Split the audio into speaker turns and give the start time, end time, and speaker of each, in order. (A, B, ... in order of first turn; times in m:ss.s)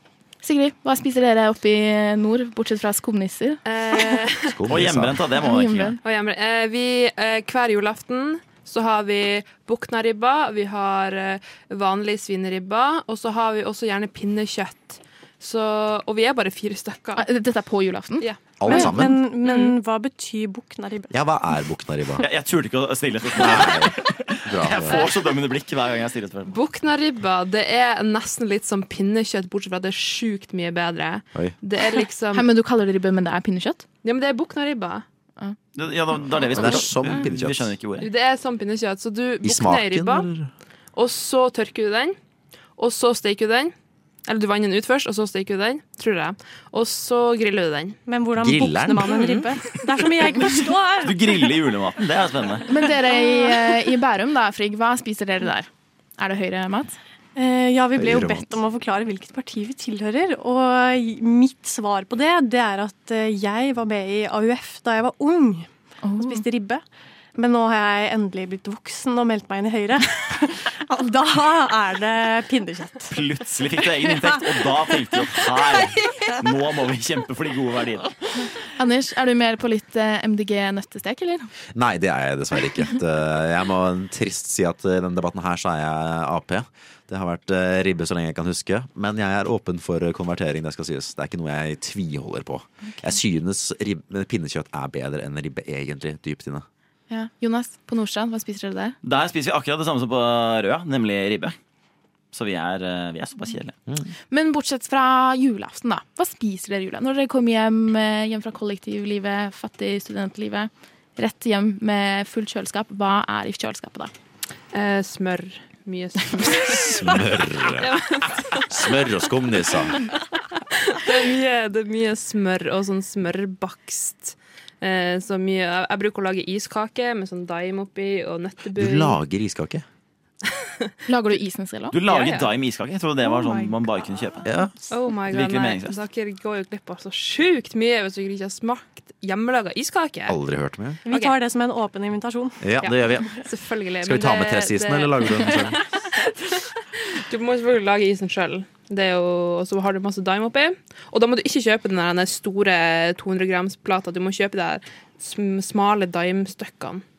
0:00.4-0:04.2 A
0:03.6-0:04.6 B
0:04.4-0:05.2 C
0:04.7-0:06.0 D
0:05.4-0:06.0 A
0:06.0-0:17.2 B
0:17.2-0:18.9 A
0:18.2-0:19.8 B
0:18.6-0:19.2 C
0:18.6-0:21.1 E
0:21.1-0:22.3 C
0:22.2-0:26.6 D
0:23.4-0:25.1 C
0:26.4-0:32.5 B
0:32.3-0:33.8 A
0:34.0-0:35.0 B
0:35.8-0:38.1 D
0:36.4-0:37.7 C
0:38.0-0:40.3 B
0:39.4-0:40.5 C
0:40.9-0:42.2 B
0:42.8-0:43.7 B
0:44.2-0:48.0 B
0:48.1-0:51.5 E
0:48.4-0:49.3 C
0:51.0-0:52.8 D
0:52.7-0:57.0 A
0:57.3-1:05.7 E
0:58.0-0:58.5 C
1:06.0-1:06.4 A
1:06.2-1:06.8 E
1:07.3-1:13.1 E
1:13.1-1:18.2 D
1:18.7-1:21.5 A
1:21.7-1:36.6 C
1:32.8-1:33.2 A
1:37.1-1:39.0 A
1:39.0-1:41.6 D
1:42.3-1:43.7 D
1:44.3-1:54.1 A
1:54.7-1:59.0 B
1:56.6-1:58.0 C
1:58.6-2:00.0 C
2:00.5-2:09.2 B
2:08.8-2:09.8 C
2:10.6-2:10.9 B
2:11.1-2:12.0 A
2:11.9-2:14.5 D
2:12.0-2:12.5 B
2:13.2-2:13.8 E
2:14.4-2:14.9 C
2:14.9-2:20.4 B
2:15.3-2:16.0 D
2:20.3-2:21.0 C
2:21.0-2:22.7 E
2:21.1-2:21.3 B
2:22.6-2:23.4 C
2:22.8-2:37.0 B
2:24.0-2:25.8 C